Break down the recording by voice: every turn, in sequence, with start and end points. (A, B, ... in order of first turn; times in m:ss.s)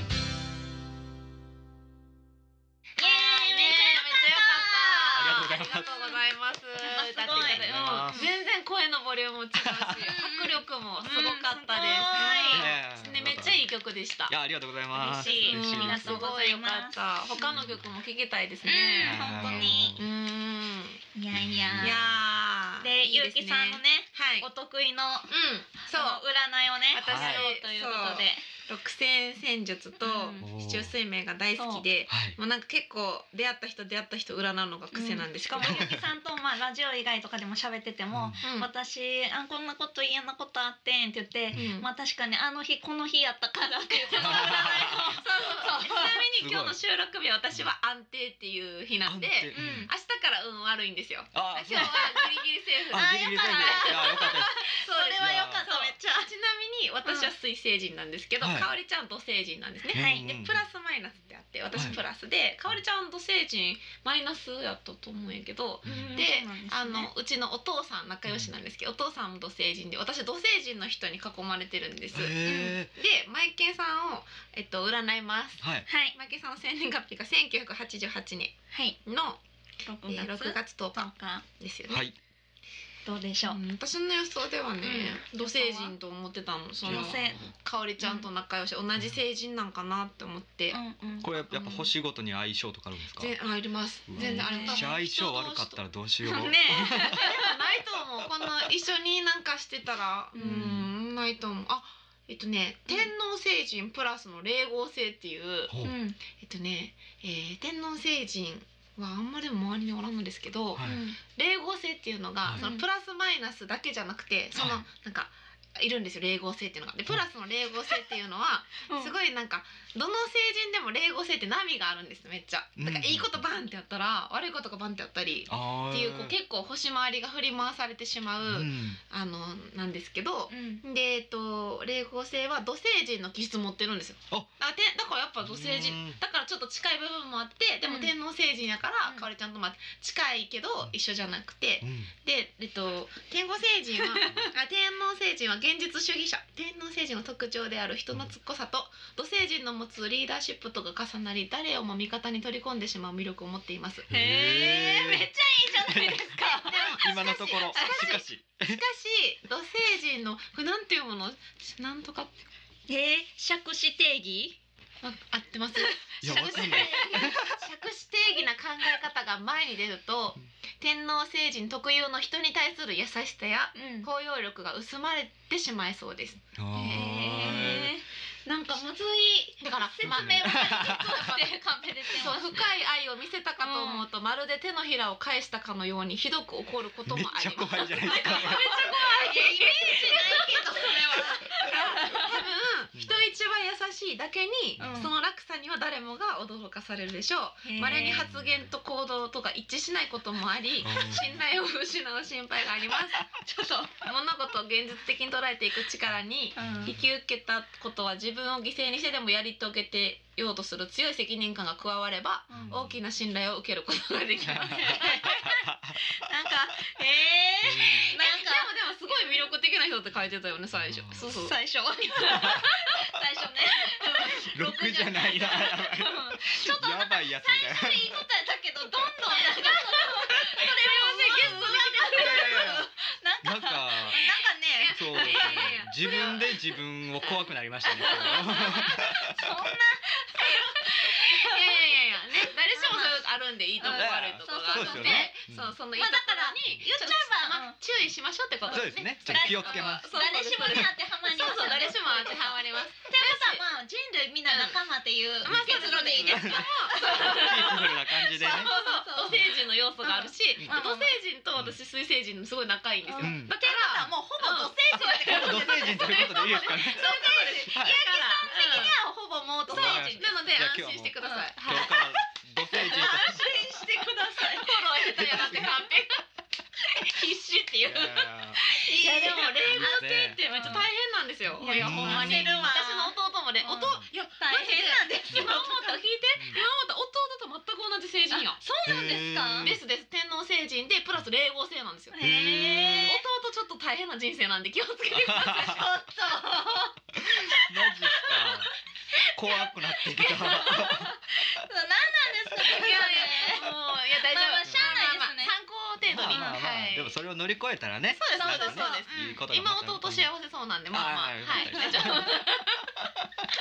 0:03.0-0:05.5 A
0:03.0-0:14.3 B
0:05.1-0:05.9 C
0:06.8-0:08.3 A
0:07.3-0:08.3 C
0:09.6-0:10.1 C
0:10.0-0:12.7 A
0:12.2-0:13.6 C
0:14.3-0:16.3 C
0:14.9-0:17.5 A
0:15.0-0:21.0 B
0:17.5-0:17.8 C
0:18.6-0:20.0 A
0:19.0-0:20.0 C
0:21.1-0:22.2 A
0:21.3-0:22.1 C
0:21.8-0:24.5 B
0:22.8-0:25.3 A
0:25.3-0:26.2 B
0:25.9-0:28.4 A
0:26.9-0:35.9 B
0:27.1-0:27.5 C
0:30.0-0:30.4 A
0:30.4-0:30.9 C
0:31.6-0:31.8 A
0:32.1-0:32.4 C
0:34.9-0:46.2 A
0:35.6-0:36.0 C
0:38.1-0:38.4 C
0:38.4-0:38.7 B
0:41.5-0:41.9 B
0:44.1-1:18.5 B
0:44.2-0:45.2 C
0:46.4-0:46.8 C
0:49.0-0:49.9 C
0:49.5-0:49.9 A
0:51.3-0:52.1 C
0:52.9-0:54.6 C
0:52.9-0:56.3 A
0:55.2-0:55.7 C
0:57.0-0:57.3 A
0:58.4-0:58.7 C
0:59.9-1:00.2 A
0:59.9-1:00.6 C
1:01.7-1:02.0 C
1:05.8-1:06.1 C
1:05.9-1:07.1 A
1:12.1-1:12.9 C
1:12.4-1:12.8 A
1:15.6-1:15.9 C
1:15.9-1:16.2 A
1:18.7-1:19.0 A
1:19.0-1:19.4 B
1:19.8-1:21.4 A
1:20.0-1:22.0 B
1:21.9-1:22.2 C
1:23.0-1:23.6 A
1:23.5-1:30.8 B
1:24.8-1:25.9 A
1:26.8-1:28.3 A
1:26.8-1:27.5 C
1:30.7-1:31.3 A
1:31.2-1:33.3 C
1:31.5-1:31.9 B
1:33.2-1:35.8 B
1:34.1-1:37.4 C
1:34.2-1:34.8 A
1:36.3-1:37.5 A
1:36.6-1:45.7 B
1:40.3-1:40.7 A
1:40.4-1:40.9 C
1:45.7-1:46.0 C
1:45.8-1:46.2 A
1:46.3-2:34.1 B
1:50.7-1:51.0 C
1:50.8-1:51.2 A
1:52.6-1:52.8 A
1:54.5-1:54.8 C
1:58.9-1:59.1 A
2:02.8-2:03.4 C
2:05.5-2:06.4 C
2:08.5-2:09.0 C
2:10.5-2:10.8 A
2:15.4-2:16.2 C
2:17.8-2:18.1 A
2:21.8-2:22.1 C
2:24.1-2:24.5 A
2:34.1-2:38.8 C
2:34.1-2:38.1 A
2:36.5-2:42.4 B
2:42.9-2:44.6 A
2:45.0-2:56.4 B
2:45.8-2:47.3 A
2:46.2-2:47.6 C
2:53.7-2:54.1 A
2:56.5-2:57.9 C
2:56.7-3:02.6 A
2:59.6-3:01.6 B
3:00.0-3:01.2 C
3:02.1-3:23.2 B
3:03.6-3:04.1 A
3:07.0-3:08.6 C
3:08.0-3:12.4 A
3:14.8-3:15.1 C
3:14.8-3:15.1 A
3:17.6-3:18.3 A
3:18.2-3:18.7 C
3:20.8-3:21.4 C
3:23.1-3:24.1 A
3:24.0-3:35.5 B
3:26.6-3:27.0 A
3:26.6-3:27.0 C
3:32.5-3:32.8 A
3:32.5-3:33.0 C
3:34.4-3:36.0 C
3:34.7-3:39.5 A
3:37.6-3:38.1 C
3:37.9-3:41.6 B
3:40.8-3:41.2 C
3:41.3-3:56.5 A
3:42.2-3:43.1 B
3:42.2-3:42.7 C
3:43.9-3:44.3 B
3:44.4-3:48.2 C
3:49.5-3:52.7 B
3:52.1-3:52.9 C
3:53.4-3:54.2 C
3:54.1-3:56.6 B
3:54.9-3:59.7 C
3:57.2-3:59.2 B
3:57.9-4:01.9 A
4:00.4-4:13.6 B
4:02.5-4:03.3 A
4:03.8-4:05.3 A
4:03.9-4:05.7 C
4:05.9-4:07.8 A
4:08.7-4:19.5 A
4:08.7-4:10.0 C
4:10.6-4:10.9 C
4:14.5-4:14.8 B
4:15.4-4:29.0 B
4:15.4-4:18.7 C
4:20.0-4:21.2 A
4:23.0-4:30.3 A
4:23.2-4:23.5 C
4:25.2-4:28.0 C
4:29.7-4:33.8 C
4:29.7-4:32.0 B
4:31.2-4:32.2 A
4:32.7-4:35.3 A
4:34.4-4:36.2 B
4:35.1-4:35.8 C
4:36.8-4:48.6 B
4:37.8-4:38.6 C
4:38.8-4:40.9 A
4:39.6-4:40.8 C
4:41.6-4:46.0 A
4:41.8-4:42.7 C
4:46.4-4:46.6 C
4:48.3-4:49.8 A
4:48.8-4:49.8 C
4:49.6-4:52.2 B
4:52.1-4:53.2 A
4:52.2-4:53.2 C
4:53.0-4:56.0 B
4:55.1-4:55.8 C
4:55.6-4:58.6 A
4:57.2-5:01.2 C
4:59.6-5:05.5 A
5:02.6-5:07.1 B
5:06.1-5:10.3 C
5:06.3-5:06.6 A
5:08.1-5:12.9 B
5:08.3-5:09.0 A
5:10.9-5:12.4 C
5:11.8-5:12.1 A
5:13.0-5:13.2 C